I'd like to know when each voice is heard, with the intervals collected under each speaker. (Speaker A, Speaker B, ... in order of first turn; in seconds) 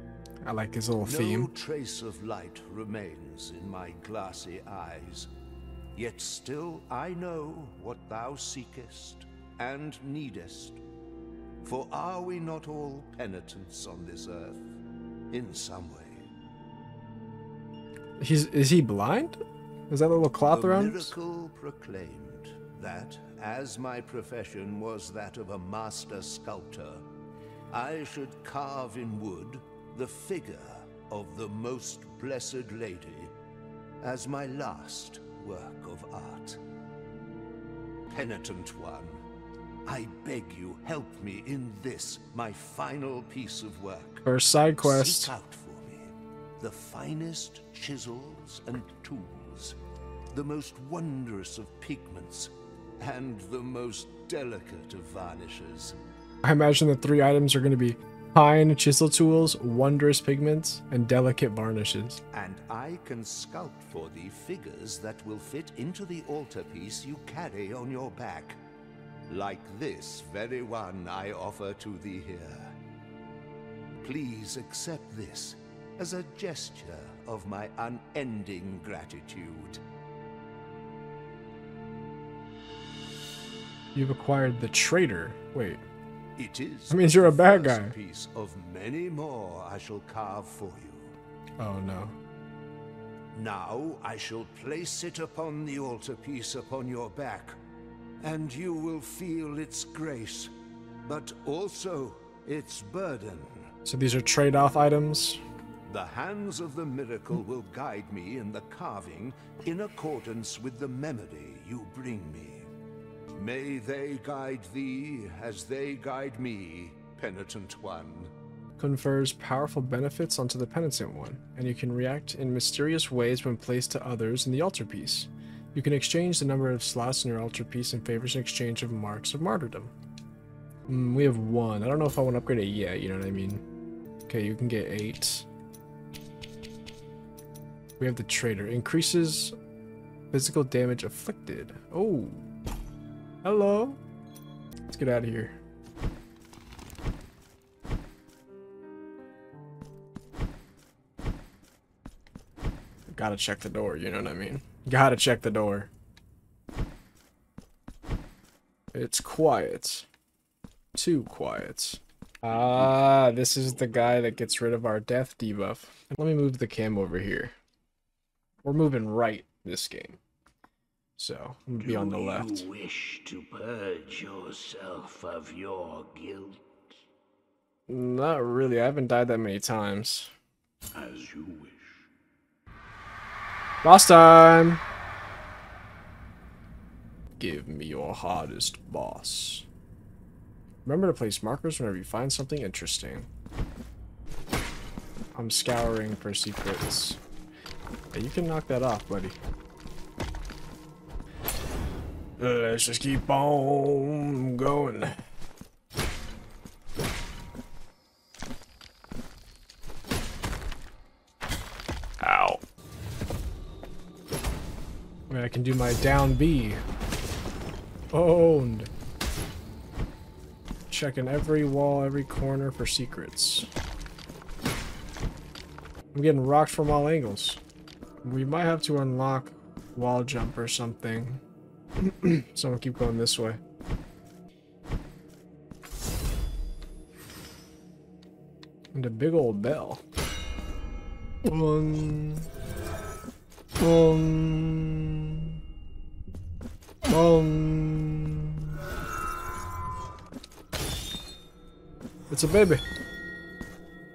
Speaker A: 0.5-1.5, 18.2-19.4, 19.9-21.1, 44.3-45.3, 56.4-62.2, 84.0-85.8, 86.9-87.9, 91.6-92.2, 103.9-105.4, 118.8-129.9, 130.9-133.6, 134.3-135.5, 138.0-139.6, 140.3-142.4, 143.4-144.0, 144.9-145.6, 153.1-155.9, 158.9-160.1, 160.9-167.5, 168.6-170.2, 171.2-172.7, 177.9-180.3, 183.8-184.8, 187.4-189.7, 190.8-193.3, 195.3-197.2, 198.1-199.4, 202.4-205.2, 212.2-212.6, 215.3-216.8, 218.1-218.9, 220.9-223.7, 226.1-227.6, 228.2-231.4, 232.0-233.6, 238.9-240.0, 241.4-242.5, 243.8-245.6, 247.1-248.7, 252.3-252.8
Speaker B: 1.0-5.3, 6.0-10.8, 11.6-14.6, 15.3-16.3, 20.5-27.1, 27.7-33.3, 34.0-36.6, 38.1-39.2, 39.9-49.8, 50.3-56.0, 62.3-68.6, 69.3-72.8, 74.0-79.8, 86.4-91.2, 93.3-97.6, 98.2-100.5, 101.0-103.7, 105.8-112.7, 113.3-118.3
Speaker C: 171.8-177.0, 180.9-182.1